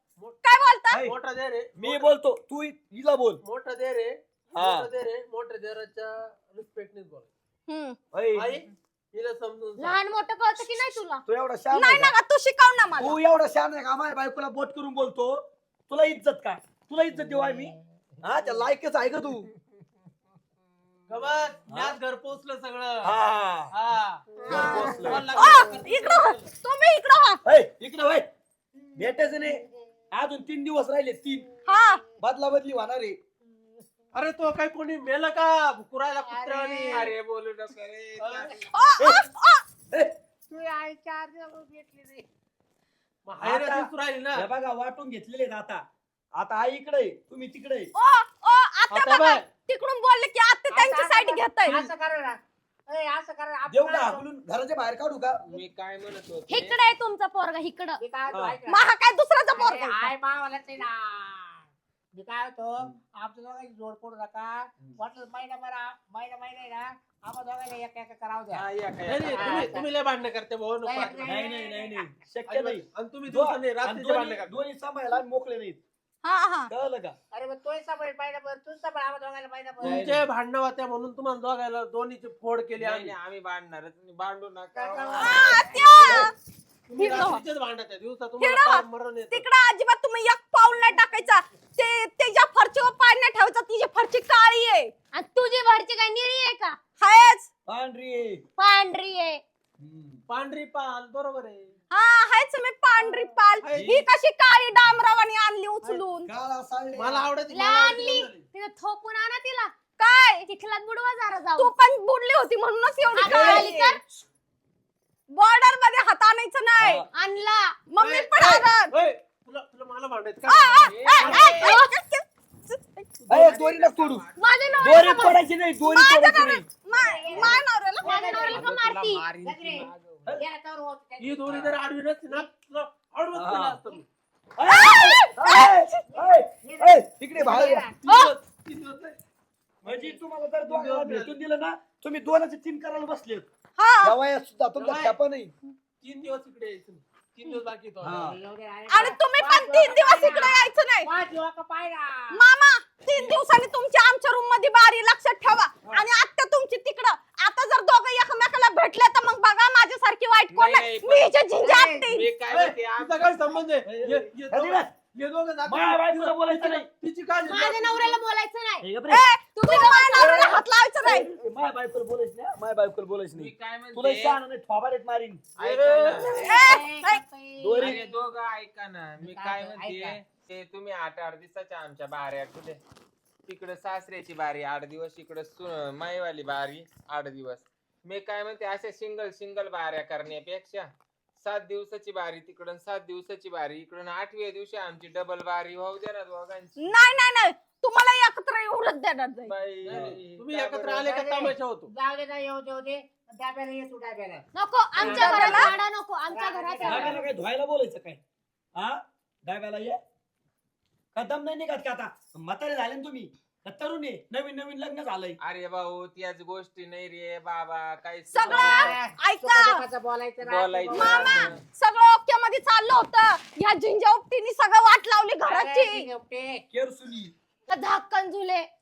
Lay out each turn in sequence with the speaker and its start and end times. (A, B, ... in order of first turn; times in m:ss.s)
0:00.4-0:01.0 A
0:00.9-0:02.0 B
0:01.8-0:03.4 C
0:03.4-0:07.3 B
0:04.5-0:04.9 C
0:07.7-0:08.0 A
0:08.1-0:08.6 C
0:08.3-0:10.0 B
0:09.8-0:11.2 D
0:10.6-0:11.0 A
0:11.2-0:12.1 C
0:11.7-0:13.2 A
0:13.0-0:19.5 C
0:17.2-0:18.6 E
0:21.1-0:23.2 B
0:21.7-0:22.0 C
0:23.0-0:23.7 C
0:23.7-0:26.5 B
0:24.4-0:27.4 A
0:24.4-0:25.3 C
0:24.6-0:24.9 E
0:27.4-0:28.3 C
0:28.9-0:29.5 E
0:29.0-0:29.6 C
0:30.1-0:31.5 C
0:31.7-0:32.0 A
0:32.2-0:33.2 C
0:34.1-0:37.1 B
0:36.2-0:37.1 E
0:36.9-0:38.7 F
0:38.2-0:38.6 B
0:38.7-0:39.6 A
0:39.0-0:39.2 C
0:40.5-0:42.2 E
0:43.2-0:44.5 B
0:43.4-0:45.8 C
0:46.3-0:47.9 C
0:48.0-0:51.9 A
0:48.9-0:49.5 B
0:50.7-0:54.2 E
0:53.7-0:55.4 C
0:55.5-0:56.8 F
0:56.5-0:58.0 D
0:58.0-0:58.8 E
0:58.3-0:58.6 C
0:58.7-1:00.1 A
0:59.5-1:08.6 E
1:08.5-1:09.8 F
1:09.0-1:11.3 B
1:09.3-1:09.9 E
1:10.8-1:12.2 E
1:11.2-1:15.8 C
1:12.5-1:14.6 B
1:16.2-1:16.7 A
1:16.7-1:17.2 C
1:17.3-1:20.1 E
1:19.8-1:23.1 B
1:19.8-1:20.2 C
1:22.8-1:25.8 F
1:24.7-1:26.2 E
1:25.1-1:26.3 A
1:26.0-1:26.3 C
1:26.9-1:29.4 B
1:27.0-1:27.4 A
1:28.4-1:34.9 A
1:35.1-1:36.8 D
1:37.0-1:37.5 A
1:37.7-1:38.4 C
1:38.6-1:39.4 D
1:39.8-1:40.2 C
1:40.3-1:41.7 B
1:41.9-1:46.3 A
1:43.0-1:44.0 B
1:43.7-1:44.1 C
1:46.2-1:47.3 C
1:47.0-1:48.5 B
1:47.4-1:49.7 D
1:50.0-1:50.5 A
1:50.4-1:51.7 D
1:51.6-1:54.0 A
1:53.1-1:54.0 D
1:53.2-1:53.7 C
1:55.3-1:57.0 A
1:56.8-1:57.1 C
1:57.1-1:57.8 D
1:57.9-1:58.9 A
1:58.0-2:01.7 B
2:00.4-2:03.1 A
2:00.8-2:01.7 F
2:01.3-2:01.9 D
2:03.2-2:04.0 B
2:03.3-2:04.2 C
2:03.5-2:05.2 F
2:04.3-2:05.4 D
2:04.8-2:06.6 C
2:05.8-2:08.6 A
2:06.9-2:08.7 E
2:08.0-2:09.2 D
2:08.5-2:10.2 F
2:09.4-2:11.4 E
2:11.2-2:14.0 B
2:11.4-2:11.8 F
2:13.3-2:13.8 C
2:14.6-2:17.8 C
2:14.7-2:15.9 A
2:16.1-2:18.0 E
2:17.8-2:19.2 B
2:18.0-2:18.3 A
2:19.8-2:21.4 B
2:19.8-2:23.5 C
2:23.8-2:24.2 A
2:24.0-2:25.5 C
2:24.7-2:25.2 B
2:26.0-2:28.3 B
2:28.0-2:28.4 C
2:28.2-2:32.4 E
2:28.9-2:31.1 A
2:32.3-2:42.3 A
2:33.2-2:33.4 B
2:40.5-2:41.3 F
2:42.0-2:43.4 F
2:42.4-2:48.2 B
2:44.0-2:44.9 C
2:45.6-2:46.9 C
2:47.4-2:48.9 D
2:48.8-2:49.2 C
2:49.0-2:51.3 A
2:49.5-2:50.6 D
2:50.1-2:55.4 C
2:53.3-2:54.4 F
2:55.6-2:56.5 F
2:55.6-2:56.7 B
2:56.2-2:58.2 E
2:56.4-2:57.2 A
2:57.6-2:58.0 C
2:57.8-3:02.8 F
2:59.2-3:00.2 E
3:03.5-3:10.9 F
3:11.4-3:16.8 F
3:16.8-3:19.5 A
3:19.5-3:21.3 F
3:19.8-3:21.9 B
3:19.9-3:20.2 C
3:21.1-3:24.4 E
3:24.5-3:27.2 D
3:25.0-3:25.7 E
3:25.0-3:25.7 A
3:26.3-3:27.2 E
3:26.8-3:28.2 C
3:28.8-3:30.0 C
3:31.1-3:35.4 C
3:35.4-3:39.0 F
3:38.3-3:39.8 A
3:38.4-3:41.6 E
3:40.4-3:41.6 F
3:40.9-3:46.0 A
3:45.4-3:46.6 E
3:46.7-3:47.3 C
3:47.7-3:48.7 D